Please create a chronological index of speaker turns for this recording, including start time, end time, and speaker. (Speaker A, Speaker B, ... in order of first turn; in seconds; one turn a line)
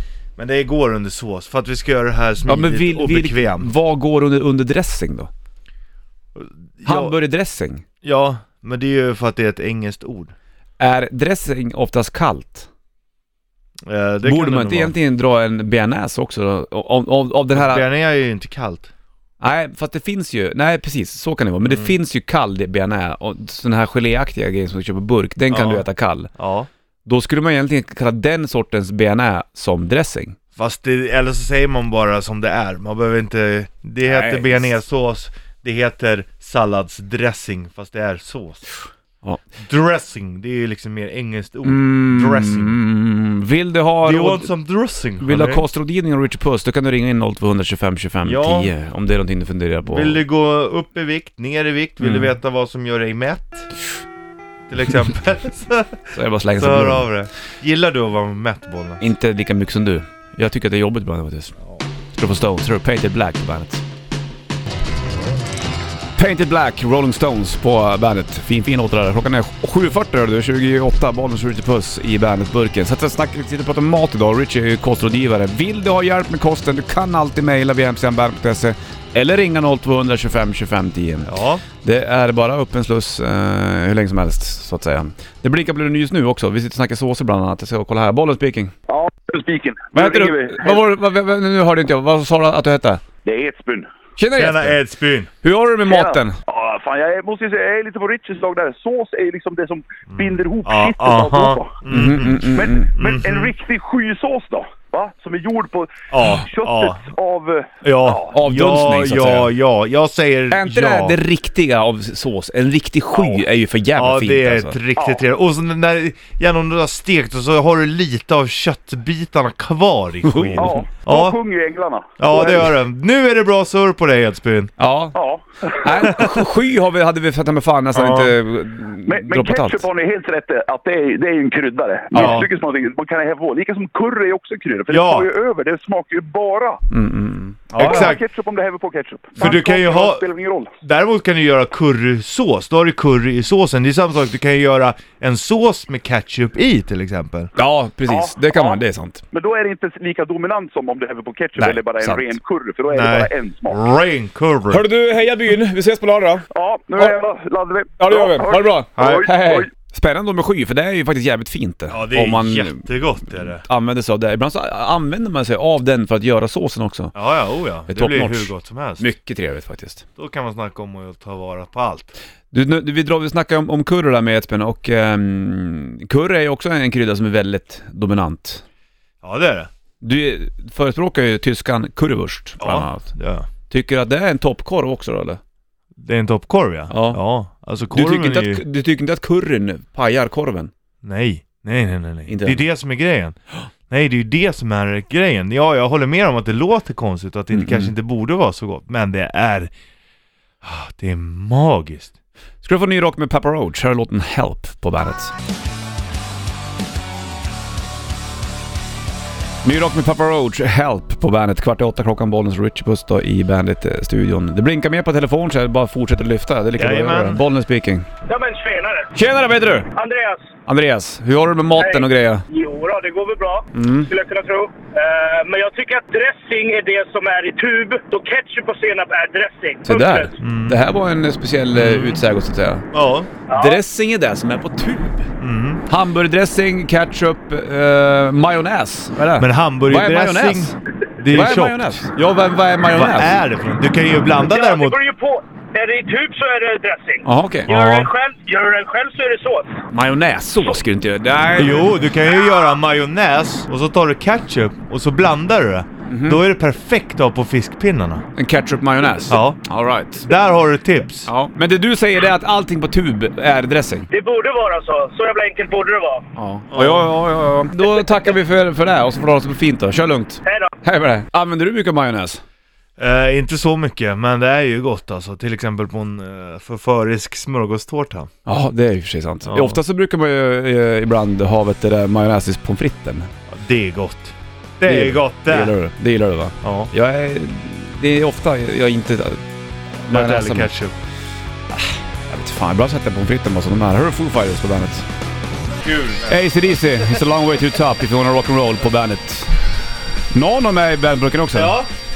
Speaker A: 0.4-3.7
Speaker B: 2.5-5.3
Speaker A: 6.3-7.2
Speaker B: 6.8-7.8
Speaker A: 8.0-10.3
Speaker B: 10.8-12.7
Speaker A: 13.8-14.9
Speaker B: 14.2-17.9
Speaker A: 17.5-18.9
Speaker B: 19.4-26.3
Speaker A: 21.6-21.9
Speaker A: 25.5-25.9
Speaker A: 26.4-26.7
Speaker B: 27.1-30.4
Speaker A: 30.6-38.7
Speaker B: 34.0-34.6
Speaker A: 39.6-42.8
Speaker B: 41.6-44.5
Speaker A: 44.0-45.6
Speaker B: 45.2-50.2
Speaker A: 48.2-48.7
Speaker A: 49.9-53.7
Speaker B: 52.0-52.3
Speaker A: 54.7-56.0
Speaker B: 56.1-57.1
Speaker A: 56.5-59.0
Speaker B: 59.0-61.6
Speaker B: 62.1-63.8
Speaker B: 66.2-88.7
Speaker A: 81.3-81.6
Speaker C: 88.9-90.8
Speaker B: 89.9-93.0
Speaker C: 93.2-93.9
Speaker B: 94.2-94.8
Speaker A: 94.3-95.3
Speaker B: 95.4-96.4
Speaker C: 95.9-108.3
Speaker A: 100.1-102.4
Speaker B: 101.9-102.9
Speaker A: 103.0-103.5
Speaker A: 106.1-107.1
Speaker A: 107.8-111.2
Speaker B: 108.3-109.5
Speaker B: 110.5-114.8
Speaker A: 114.0-121.4
Speaker C: 115.0-115.2
Speaker B: 120.2-120.8
Speaker C: 120.5-122.7
Speaker A: 122.2-124.7
Speaker B: 124.8-125.2
Speaker C: 125.2-126.2
Speaker B: 125.8-129.9
Speaker A: 127.9-128.3
Speaker C: 129.1-136.8
Speaker B: 132.1-132.5
Speaker A: 132.1-132.5
Speaker A: 134.9-135.3
Speaker B: 136.9-138.2
Speaker C: 137.8-140.7
Speaker A: 137.8-138.2
Speaker A: 139.4-140.3
Speaker A: 140.8-147.5
Speaker B: 147.6-149.2
Speaker C: 148.1-148.8
Speaker C: 149.3-153.8
Speaker B: 151.6-152.3
Speaker A: 152.9-154.9
Speaker B: 154.7-157.2
Speaker C: 156.5-159.7
Speaker B: 158.0-162.8
Speaker A: 159.0-159.2
Speaker A: 161.9-163.7
Speaker B: 163.5-167.1
Speaker A: 167.2-169.1
Speaker B: 167.9-170.1
Speaker A: 170.2-172.2
Speaker B: 172.5-178.6
Speaker A: 179.2-179.7
Speaker B: 180.0-183.1
Speaker A: 182.6-183.5
Speaker B: 183.7-185.4
Speaker A: 186.0-188.6
Speaker B: 186.9-187.2
Speaker B: 187.9-190.7
Speaker A: 191.0-193.4
Speaker B: 192.3-192.6
Speaker A: 193.9-199.7
Speaker B: 197.5-197.9
Speaker A: 200.6-202.1
Speaker B: 202.6-205.3
Speaker B: 209.6-218.1
Speaker A: 216.8-217.4
Speaker D: 218.3-219.1
Speaker B: 219.1-219.9
Speaker D: 219.9-220.5
Speaker B: 220.7-222.4
Speaker D: 221.8-230.4
Speaker B: 223.7-224.1
Speaker B: 229.8-232.9
Speaker A: 230.4-230.8
Speaker A: 231.8-232.2
Speaker A: 232.9-233.3
Speaker D: 233.5-233.8
Speaker B: 233.5-235.3
Speaker A: 235.4-235.8
Speaker B: 235.9-240.8
Speaker A: 239.4-242.0
Speaker B: 241.3-243.3
Speaker A: 242.9-245.0
Speaker D: 244.4-249.8
Speaker B: 247.2-247.7
Speaker A: 247.7-248.1
Speaker B: 249.9-251.9
Speaker A: 251.6-258.2
Speaker B: 256.1-256.4
Speaker B: 258.4-260.3
Speaker A: 259.3-259.6
Speaker A: 260.2-261.3
Speaker B: 261.3-264.1
Speaker D: 264.1-266.3
Speaker B: 266.4-272.4
Speaker A: 266.7-267.1
Speaker D: 270.4-270.7
Speaker A: 273.0-278.3
Speaker B: 278.5-283.3
Speaker A: 279.5-279.8
Speaker A: 283.5-285.8
Speaker B: 284.9-289.4
Speaker A: 286.6-286.9
Speaker B: 290.1-290.7
Speaker A: 290.1-290.9
Speaker B: 291.7-295.1
Speaker A: 295.8-296.4
Speaker B: 296.3-299.5
Speaker B: 300.3-301.8
Speaker A: 301.5-301.9